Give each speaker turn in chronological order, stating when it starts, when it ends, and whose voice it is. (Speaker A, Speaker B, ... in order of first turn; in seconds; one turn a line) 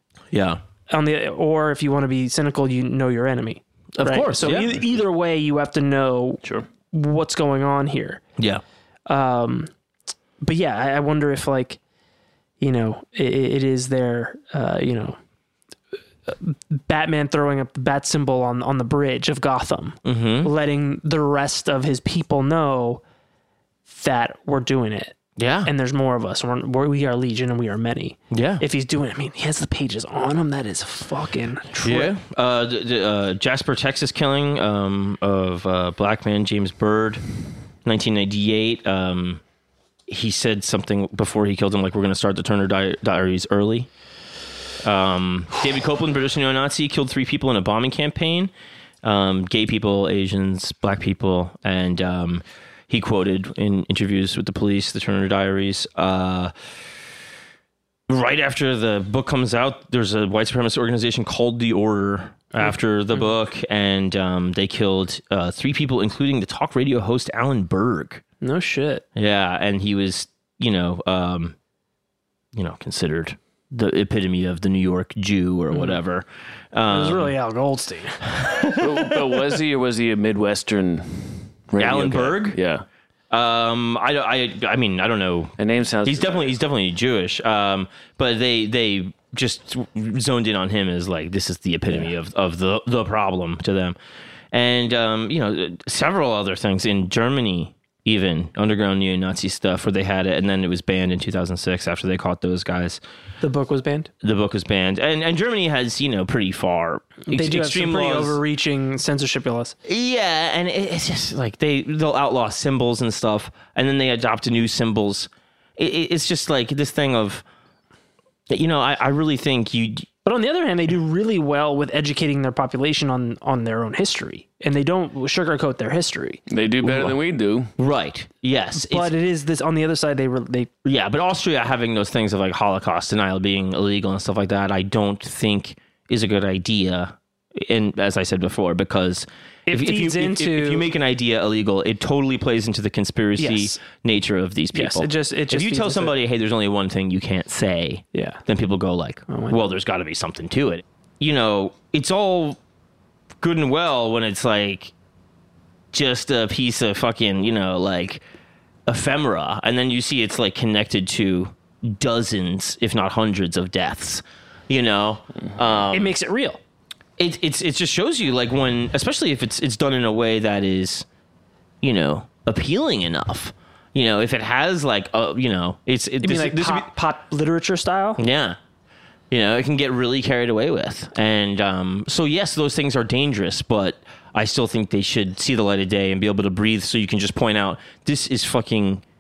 Speaker A: 0.3-0.6
Speaker B: 0.9-8.2
Speaker A: 4.0-4.8
Speaker B: 9.1-9.7
Speaker B: 10.4-11.8
Speaker B: 12.6-15.2
Speaker B: 16.3-23.0
Speaker A: 20.1-20.5
Speaker B: 23.9-32.1
Speaker A: 25.4-25.7
Speaker A: 28.3-28.6
Speaker A: 31.8-37.2
Speaker A: 37.9-39.4
Speaker A: 40.1-43.9
Speaker A: 44.8-48.5
Speaker A: 49.0-56.5
Speaker A: 58.1-68.2
Speaker B: 62.6-63.3
Speaker B: 68.4-69.0
Speaker A: 69.2-71.5
Speaker A: 72.5-77.3
Speaker B: 75.7-76.0
Speaker B: 76.9-78.2
Speaker A: 78.3-79.5
Speaker C: 78.8-82.8
Speaker A: 81.8-82.6
Speaker A: 83.3-85.5
Speaker C: 85.6-86.5
Speaker A: 86.0-94.0
Speaker A: 94.5-103.0
Speaker B: 103.4-104.1
Speaker A: 104.2-108.4
Speaker B: 107.3-109.7
Speaker A: 109.8-117.4
Speaker A: 118.5-120.1
Speaker B: 120.2-126.4
Speaker C: 126.5-127.7
Speaker A: 126.8-127.2
Speaker A: 127.8-129.1
Speaker B: 128.8-130.7
Speaker A: 130.8-152.6
Speaker B: 139.7-140.8
Speaker B: 143.4-143.8
Speaker B: 144.7-146.2
Speaker B: 148.1-148.4
Speaker B: 149.3-149.6
Speaker A: 153.4-154.9
Speaker A: 155.9-158.2
Speaker A: 158.9-166.1
Speaker B: 165.9-166.6
Speaker A: 167.2-171.1
Speaker A: 171.8-176.9
Speaker B: 176.2-178.2
Speaker A: 178.2-178.6
Speaker A: 179.3-189.0